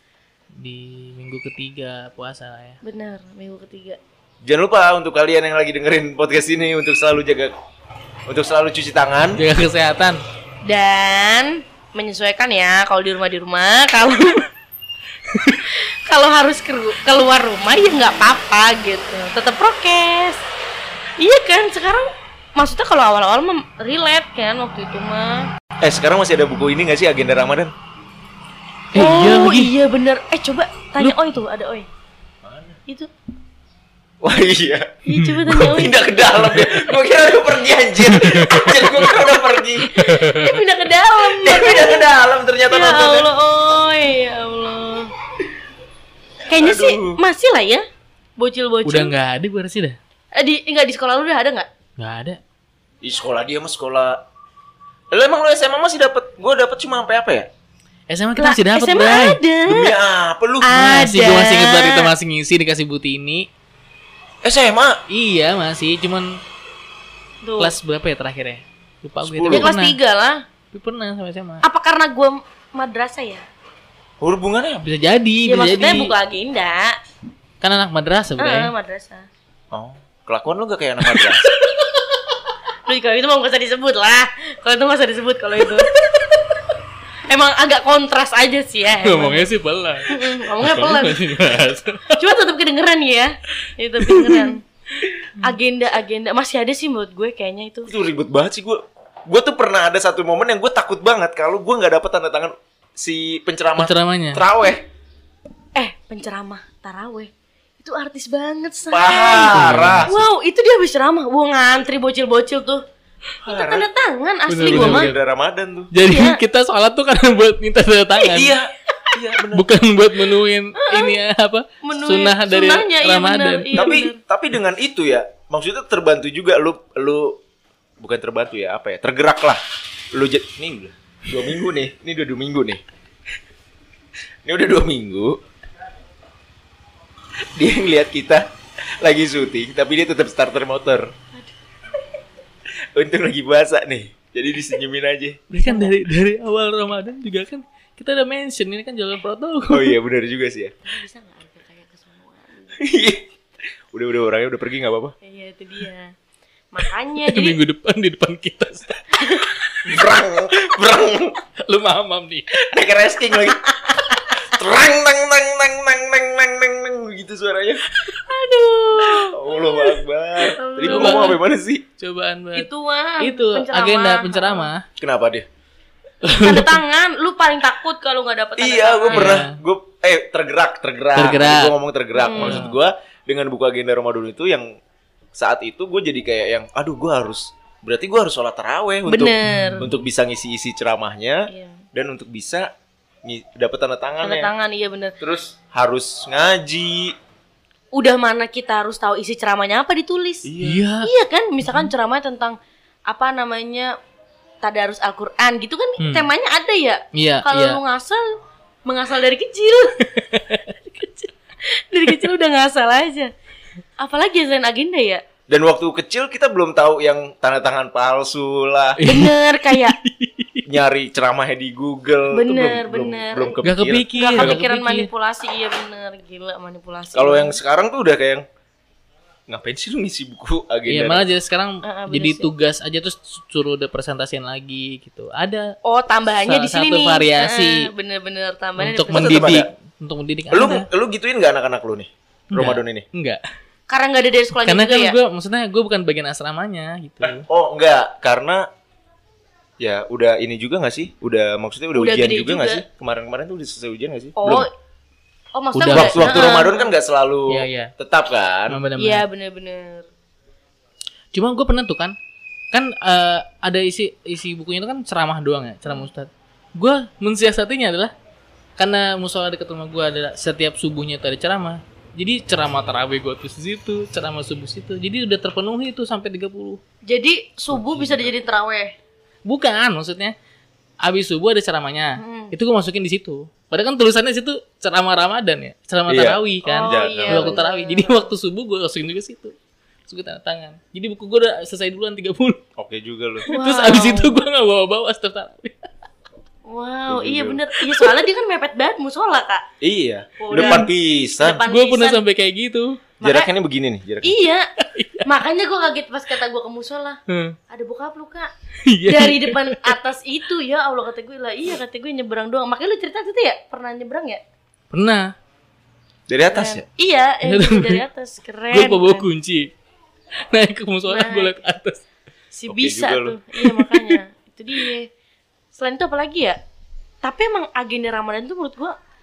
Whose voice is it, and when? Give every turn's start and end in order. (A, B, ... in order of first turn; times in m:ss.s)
0:00.6-0:02.8 A
0:02.8-0:04.0 B
0:04.4-0:07.5 C
0:08.3-0:09.4 C
0:09.4-0:10.2 A
0:10.6-0:14.5 B
0:15.7-0:20.4 B
0:21.2-0:25.5 B
0:25.8-0:27.7 C
0:28.9-0:29.7 A
0:28.9-0:31.8 B
0:31.0-0:31.4 A
0:32.4-0:32.8 C
0:34.2-0:34.9 C
0:35.0-0:36.2 B
0:35.5-0:39.9 C
0:38.1-0:39.1 A
0:39.8-0:42.1 B
0:40.0-0:40.5 A
0:41.2-0:43.3 C
0:42.7-0:45.1 B
0:46.5-0:47.8 B
0:46.5-0:47.2 C
0:48.4-0:49.1 B
0:48.8-0:50.0 A
0:50.3-0:51.7 B
0:52.0-0:52.4 A
0:53.0-0:54.2 C
0:55.1-0:57.5 C
0:58.1-0:59.4 A
0:58.4-1:00.0 B
0:59.6-1:00.8 C
1:00.6-1:02.1 B
1:00.7-1:03.5 A
1:04.4-1:05.0 C
1:05.1-1:06.4 A
1:07.4-1:07.7 B
1:07.6-1:10.0 A
1:09.2-1:09.7 C
1:09.5-1:10.4 B
1:10.7-1:11.6 A
1:11.6-1:13.4 B
1:14.2-1:14.9 C
1:14.8-1:16.1 A
1:15.4-1:16.9 B
1:17.6-1:18.7 A
1:18.4-1:19.3 B
1:19.7-1:21.4 C
1:21.0-1:21.5 A
1:22.8-1:26.4 B
1:27.3-1:29.5 B
1:29.0-1:32.2 A
1:30.1-1:31.2 B
1:32.1-1:34.6 B
1:34.0-1:34.5 A
1:35.4-1:37.9 B
1:37.9-1:44.8 C
1:43.8-1:44.4 A
1:45.8-1:47.3 B
1:47.8-1:52.8 B
1:48.9-1:50.2 C
1:49.4-1:50.1 A
1:53.4-1:53.9 C
1:53.4-1:55.1 B
1:54.5-1:55.2 A
1:54.6-1:55.9 C
1:55.9-1:58.5 A
1:56.0-1:56.4 B
1:58.3-1:59.7 C
1:59.5-2:03.9 A
2:00.8-2:01.2 B
2:01.8-2:04.2 B
2:03.7-2:07.4 C
2:08.0-2:12.8 C
2:14.4-2:15.4 C
2:17.6-2:18.4 C
2:19.0-2:21.1 C
2:22.9-2:25.4 C
2:25.5-2:29.9 A
2:25.6-2:25.9 B
2:29.7-2:30.7 C
2:30.8-2:32.8 B
2:32.8-2:33.3 C
2:33.9-2:35.1 C
2:35.2-2:36.1 B
2:36.7-2:37.6 B
2:37.2-2:39.7 A
2:39.8-2:41.4 C
2:41.6-2:42.5 A
2:42.6-2:43.6 C
2:43.3-2:44.3 B
2:44.4-2:47.8 C
2:48.2-2:50.0 B
2:49.0-2:51.8 C
2:50.5-2:51.4 B
2:50.8-2:51.4 A
2:52.0-2:52.7 A
2:52.5-2:54.7 B
2:53.2-2:54.8 A
2:55.0-2:55.4 C
2:56.2-2:56.8 A
2:56.3-2:59.4 B
2:58.6-3:04.7 C
2:59.1-2:59.6 A
3:01.1-3:01.7 A
3:02.2-3:02.7 B
3:02.3-3:02.7 A
3:05.4-3:12.7 C
3:09.1-3:09.9 B
3:09.5-3:09.9 A
3:11.5-3:11.8 B
3:13.2-3:14.5 C
3:14.2-3:15.1 B
3:15.2-3:17.1 C
3:17.9-3:20.5 B
3:20.4-3:20.8 C
3:20.6-3:21.1 A
3:21.0-3:22.6 B
3:23.1-3:23.9 B
3:24.6-3:28.2 B
3:26.0-3:26.3 A
3:27.1-3:27.8 A
3:28.8-3:30.0 B
3:30.1-3:30.6 A
3:30.8-3:31.3 B
3:31.9-3:33.3 B
3:34.0-3:35.2 B
3:35.5-3:39.0 C
3:39.0-3:40.6 A
3:39.0-3:40.0 B
3:40.7-3:44.6 C
3:42.3-3:47.6 B
3:43.6-3:45.1 A
3:47.1-3:48.4 C
3:49.5-3:51.2 C
3:50.8-3:55.7 A
3:51.8-3:52.5 B
3:55.8-3:59.5 B
3:56.4-3:57.9 A
3:58.8-4:00.9 A
3:59.1-3:59.7 C
4:00.5-4:03.0 C
4:02.5-4:03.4 A
4:03.9-4:05.2 B
4:04.6-4:07.4 A
4:07.2-4:08.6 C
4:09.8-4:14.6 C
4:11.9-4:12.8 B
4:14.4-4:14.7 B
4:15.5-4:16.9 B
4:15.7-4:16.4 A
4:15.9-4:18.8 C
4:17.5-4:17.9 A
4:18.7-4:19.2 A
4:19.0-4:20.0 B
4:21.3-4:22.2 A
4:22.7-4:28.1 A
4:28.8-4:36.8 A
4:37.1-4:38.9 B
4:37.7-4:38.3 A
4:39.4-4:40.3 A
4:41.0-4:49.5 A
4:42.2-4:42.5 B
4:46.1-4:47.6 C
4:46.6-4:48.3 B
4:50.1-4:52.6 A
4:52.8-4:53.5 C
4:53.4-4:55.8 A
4:53.5-4:54.4 B
4:56.6-4:59.6 B
4:57.1-4:57.6 C
4:59.8-5:01.6 C
5:00.4-5:00.9 B
5:00.5-5:00.9 A
5:01.4-5:02.2 B
5:01.6-5:03.0 A
5:03.2-5:03.5 B
5:03.2-5:04.3 C
5:04.2-5:04.6 B
5:04.9-5:05.2 A
5:05.2-5:08.5 B
5:07.3-5:07.5 A
5:08.8-5:09.9 A
5:09.0-5:14.4 B
5:14.9-5:15.3 A
5:16.3-5:16.8 C
5:16.5-5:19.3 B
5:17.4-5:18.0 A
5:18.7-5:19.7 A
5:20.5-5:22.0 A
5:21.1-5:21.5 B
5:22.5-5:25.1 B
5:22.7-5:23.4 C
5:23.6-5:24.2 A
5:25.7-5:26.6 B
5:27.2-5:28.9 B